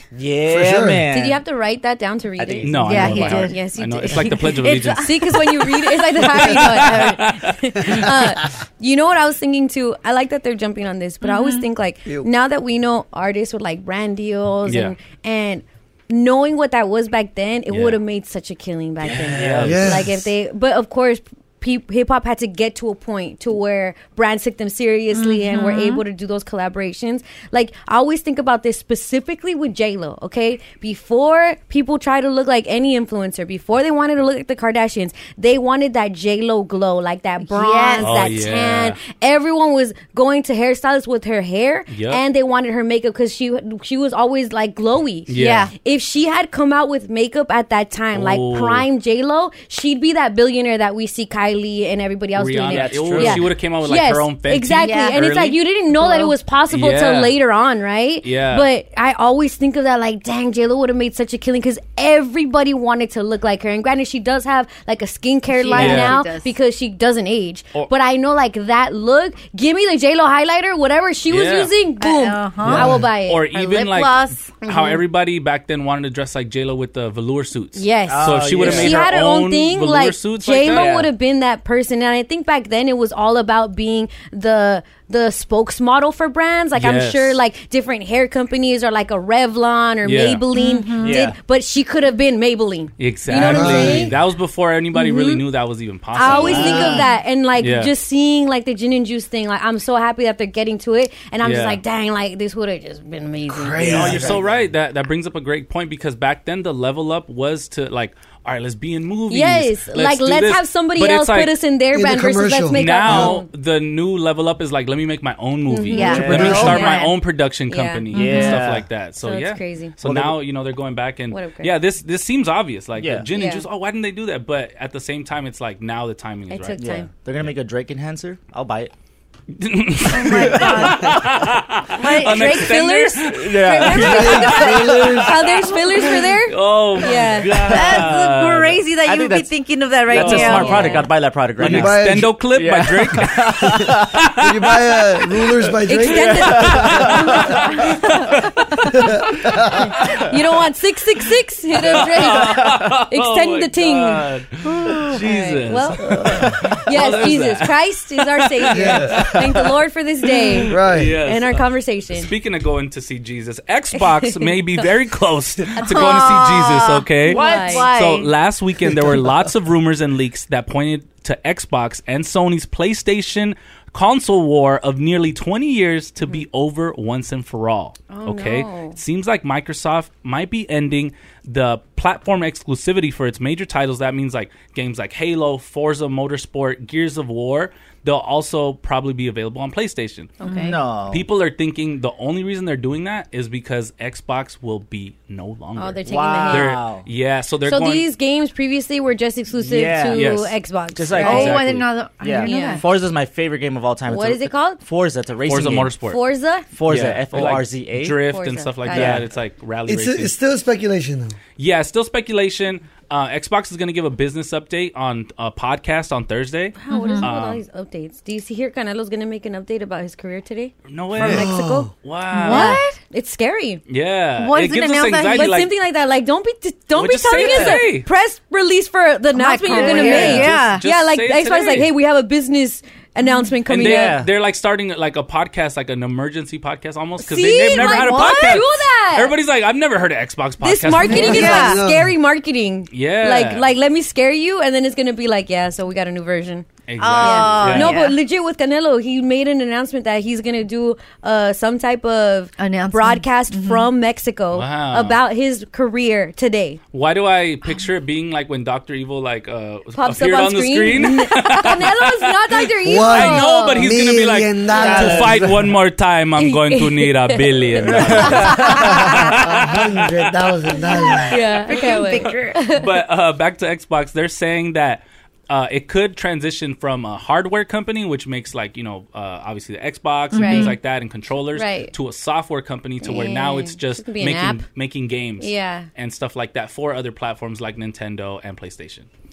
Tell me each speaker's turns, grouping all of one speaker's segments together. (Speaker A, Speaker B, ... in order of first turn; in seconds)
Speaker A: 0.1-1.4, 2.4-3.5, 19.0-19.8, 52.7-53.5, 72.6-73.0, 78.1-79.0, 80.7-81.1, 91.0-91.4, 96.3-97.1, 116.0-116.9, 118.1-118.9, 120.0-120.4, 123.0-123.3, 126.8-128.9, 130.2-131.0, 133.4-135.3, 137.7-138.0, 139.0-139.5, 140.1-144.1, 146.6-147.1, 154.7-155.2, 190.6-191.3, 196.1-197.1, 199.6-200.3, 201.0-205.9, 206.7-208.2, 208.9-209.2, 227.4-227.8, 233.7-234.3, 264.8-265.4, 267.9-268.4
Speaker B: 0.5-1.1, 19.6-20.2, 93.3-94.1, 103.5-104.5, 111.9-113.4, 134.0-135.5, 141.6-142.3, 144.4-147.0, 149.0-149.9, 158.7-159.3, 160.7-161.2, 209.9-211.4, 221.2-221.9, 241.1-242.2, 262.8-265.7, 268.5-271.4
Speaker C: 1.1-73.5, 74.6-75.0, 77.8-94.1, 94.9-95.4, 96.1-104.3, 109.3-113.5, 115.7-117.2, 117.7-118.0, 119.2-120.0, 121.3-121.7, 123.3-123.7, 126.5-127.1, 132.2-137.8, 140.3-141.1, 145.9-147.1, 149.8-154.3, 155.1-162.3, 164.0-164.4, 165.8-166.3, 167.3-167.9, 178.1-179.0, 190.4-190.8, 195.8-196.8, 197.7-201.6, 202.4-202.8, 204.1-204.8, 206.1-206.7, 208.3-209.2, 216.8-221.9, 222.4-223.8, 225.3-234.2, 237.2-239.3, 240.6-246.7, 247.2-256.8, 259.9-263.9, 264.8-265.1, 266.4-267.4, 268.2-269.4, 271.1-272.9, 280.4-280.8, 281.6-281.9, 283.0-284.6, 285.4-285.9
Speaker D: 2.6-8.1, 14.7-14.9, 17.7-18.0, 19.3-20.0, 38.0-39.0, 41.9-42.2, 45.3-45.7, 48.1-48.9, 52.4-55.6, 56.7-57.4, 58.2-58.7, 65.7-66.2, 71.3-71.8, 72.7-80.9, 86.8-87.4, 90.0-90.4, 93.0-97.1, 97.6-97.9, 101.4-101.8, 103.8-111.5, 112.7-126.9, 129.6-134.8, 136.1-138.8, 140.1-140.9, 141.6-144.8, 146.3-148.4, 151.8-159.4, 160.7-190.3, 191.1-198.1, 200.1-200.6, 201.2-201.9, 205.5-206.2, 206.8-210.3, 211.6-217.6, 220.9-221.5, 222.0-222.8, 223.9-225.7, 226.9-228.1, 229.7-231.9, 233.7-241.7, 242.9-243.7, 246.9-248.0, 254.5-255.2, 256.9-270.2, 272.8-289.1
Speaker E: 2.9-3.6, 4.6-5.0, 11.2-11.7, 25.1-26.0, 37.4-38.2, 45.3-45.7, 54.8-55.2, 56.0-56.3, 65.5-66.5, 72.0-73.0, 73.5-74.5, 90.5-91.2, 115.9-116.9, 118.1-118.6, 130.1-131.2, 132.0-132.7, 137.7-141.0, 165.8-168.3, 190.4-190.8, 201.2-202.9, 216.9-217.3, 222.3-223.0, 224.4-225.6, 229.3-230.8, 237.6-238.6, 241.0-241.8, 247.0-248.2, 252.6-253.9, 271.1-272.6, 280.3-280.8